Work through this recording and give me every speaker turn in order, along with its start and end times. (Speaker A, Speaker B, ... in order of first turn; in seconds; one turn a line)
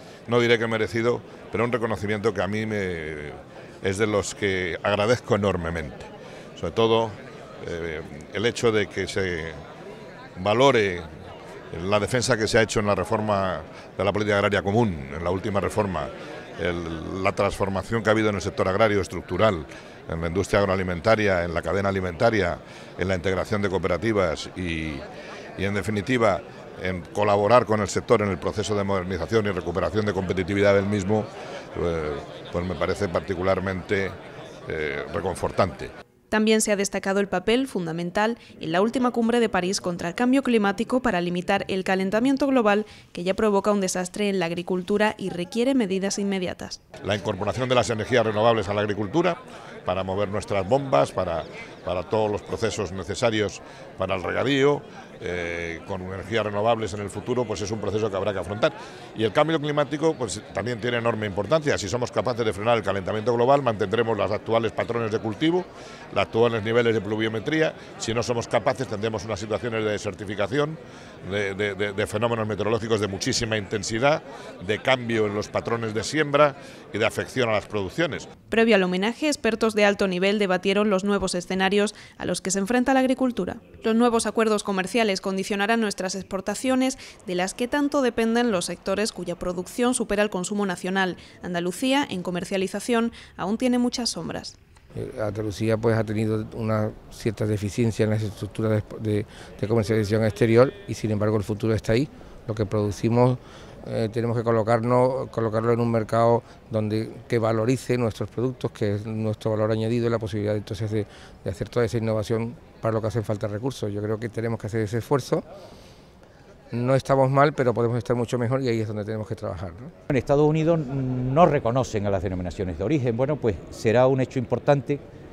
Speaker A: 0.3-9.6
Speaker A: 10.4-11.1
Speaker A: 11.7-25.0
Speaker A: 25.6-34.2
Speaker A: 34.7-35.9
Speaker B: 36.3-46.8
Speaker A: 47.0-78.3
Speaker B: 78.5-94.6
Speaker C: 95.0-115.5
Speaker C: 116.7-119.9
Speaker D: 120.1-125.0